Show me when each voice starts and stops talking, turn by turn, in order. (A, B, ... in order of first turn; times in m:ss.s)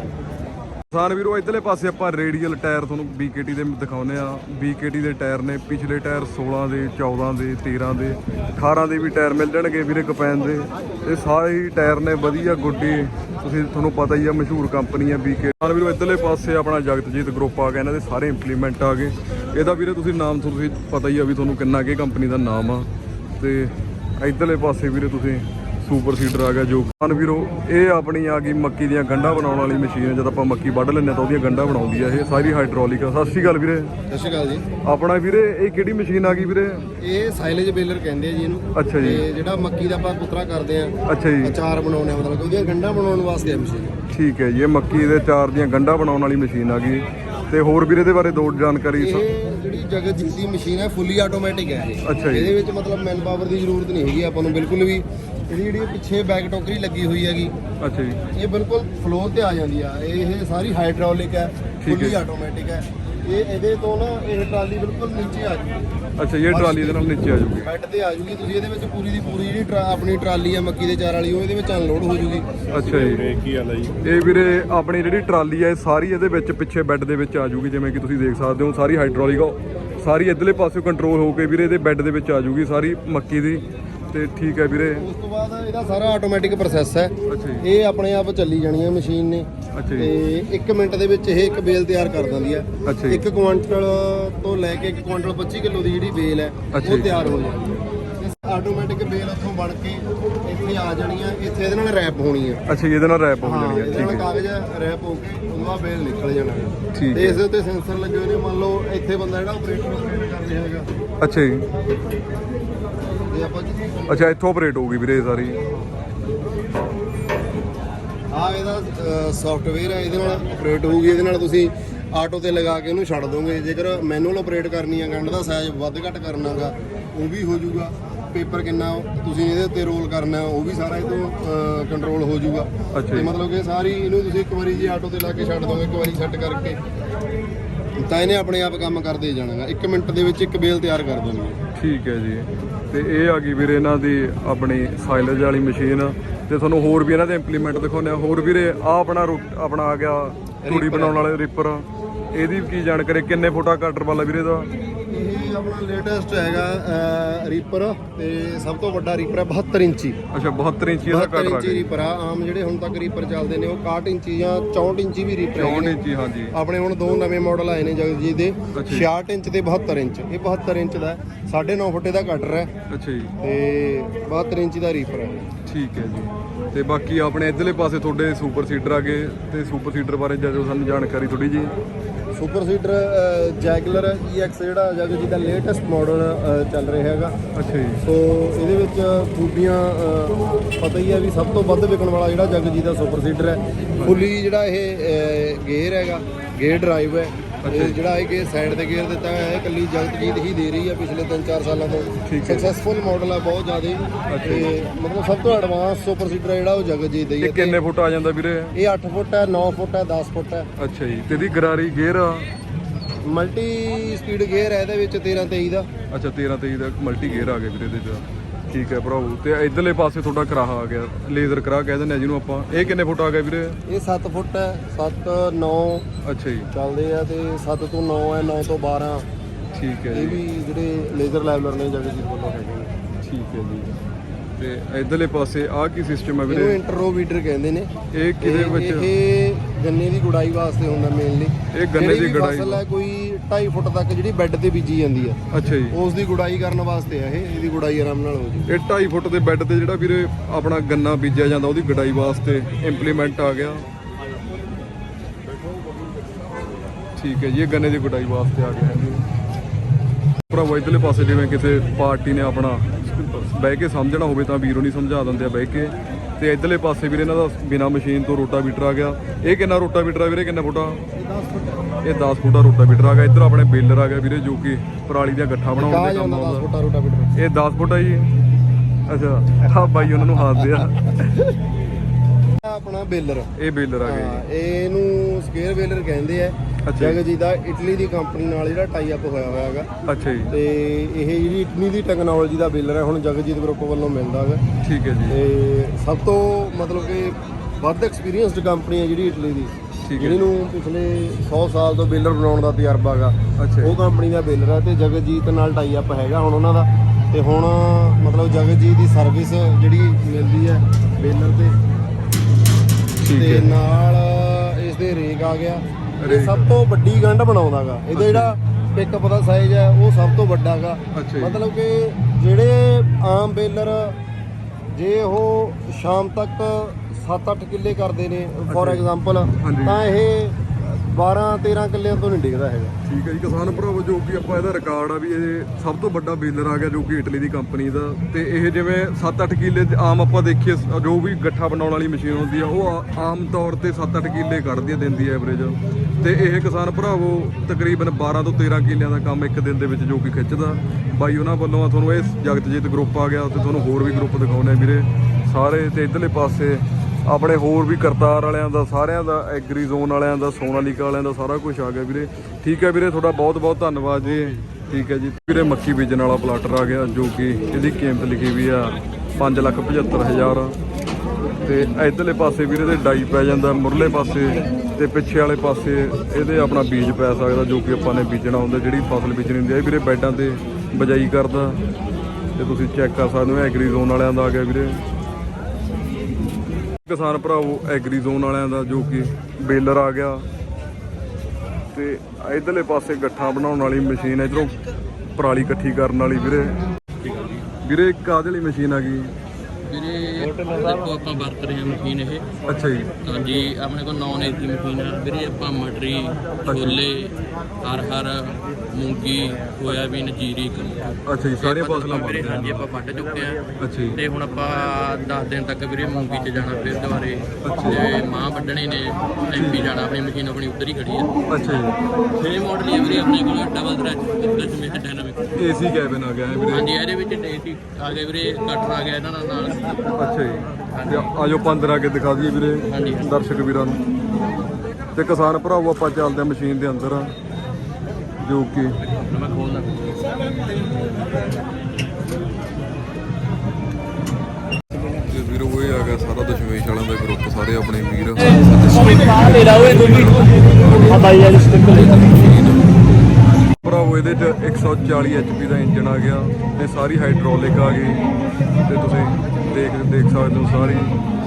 0:00.9-0:33.9 A
0:34.1-0:34.7 B
0:34.8-0:36.9 A
0:37.0-0:44.0 B
0:38.8-0:39.2 A
0:41.1-0:41.5 A
0:44.1-0:49.2 A
0:49.0-0:57.5 B
0:52.0-0:52.5 A
0:57.8-0:58.2 A
0:58.3-1:05.8 B
1:01.8-1:02.2 A
1:06.2-1:07.7 A
1:06.5-1:12.7 B
1:12.7-1:13.3 A
1:13.4-1:13.8 C
1:14.0-1:25.0 A
1:25.0-1:42.6 B
1:27.3-1:27.7 A
1:29.7-1:30.1 A
1:32.9-1:33.2 A
1:36.7-1:37.2 A
1:42.7-1:44.3 A
1:43.4-1:50.9 B
1:46.9-1:47.4 A
1:51.2-1:51.7 A
1:53.3-1:54.0 B
1:54.1-1:55.6 A
1:58.3-2:16.8 B
2:12.9-2:13.3 A
2:18.0-2:21.6 B
2:21.8-2:34.7 A
2:30.6-2:31.2 B
2:35.1-2:40.2 B
2:40.3-2:41.9 A
2:41.0-2:46.0 B
2:45.6-2:46.5 A
2:46.5-2:52.7 B
2:48.7-2:49.1 A
2:52.9-2:53.3 A
2:53.4-2:55.4 B
2:55.7-3:01.7 A
3:02.4-3:07.4 B
3:07.5-3:08.0 A
3:08.0-3:27.8 B
3:14.0-3:14.2 A
3:17.6-3:18.0 A
3:22.3-3:22.7 A
3:24.3-3:24.7 A
3:27.4-3:28.7 A
3:28.7-3:30.7 B
3:30.8-3:32.5 A
3:33.3-3:35.9 B
3:36.1-3:43.8 A
3:43.9-3:46.0 B
3:46.2-3:46.7 A
3:46.7-3:49.3 B
3:49.7-3:50.4 A
3:50.1-3:52.9 B
3:53.2-3:54.0 A
3:54.6-3:56.8 A
3:56.5-3:57.9 B
3:58.1-3:59.1 A
3:58.4-4:08.7 B
4:01.7-4:02.8 A
4:05.5-4:06.0 A
4:08.7-4:13.8 A
4:17.2-4:19.2 A
4:20.5-4:31.0 A
4:31.2-4:32.0 B
4:32.0-4:36.6 A
4:35.8-4:37.3 B
4:37.4-4:38.3 A
4:39.1-4:41.3 A
4:40.3-4:40.8 B
4:42.6-4:43.5 B
4:43.6-4:44.4 A
4:44.0-4:49.9 B
4:46.9-4:47.2 A
4:50.1-4:50.5 A
4:50.5-4:54.6 B
4:54.8-4:55.4 A
4:55.3-5:11.8 B
5:00.1-5:00.4 A
5:03.6-5:03.9 A
5:13.2-5:13.7 A
5:13.3-5:24.1 B
5:16.2-5:16.7 A
5:18.2-5:18.6 A
5:21.1-5:21.6 A
5:24.9-5:32.9 B
5:28.7-5:29.0 A
5:29.6-5:30.0 A
5:33.1-6:10.8 A
6:11.7-6:21.8 A
6:22.6-6:25.0 A
6:27.0-6:30.4 A
6:31.9-6:34.8 A
6:35.4-6:36.8 A
6:37.8-6:39.3 A
6:39.8-6:42.5 D
6:40.5-6:40.9 C
6:42.7-6:43.2 A
6:43.2-6:53.6 D
6:46.7-6:47.0 A
6:51.3-6:52.9 A
6:53.8-6:54.2 A
6:54.2-7:01.3 D
6:57.6-6:58.0 A
6:59.5-6:59.9 A
7:01.5-7:02.0 A
7:02.3-7:05.5 D
7:05.6-7:06.9 A
7:06.7-7:10.2 D
7:10.2-7:14.0 A
7:10.9-7:11.3 D
7:12.8-7:13.4 D
7:15.2-7:17.3 A
7:18.4-7:19.0 A
7:19.0-7:20.4 D
7:25.1-7:31.7 A
7:29.0-7:30.4 C
7:30.3-7:33.4 D
7:31.0-7:32.2 C
7:33.7-7:38.2 A
7:38.9-7:41.2 A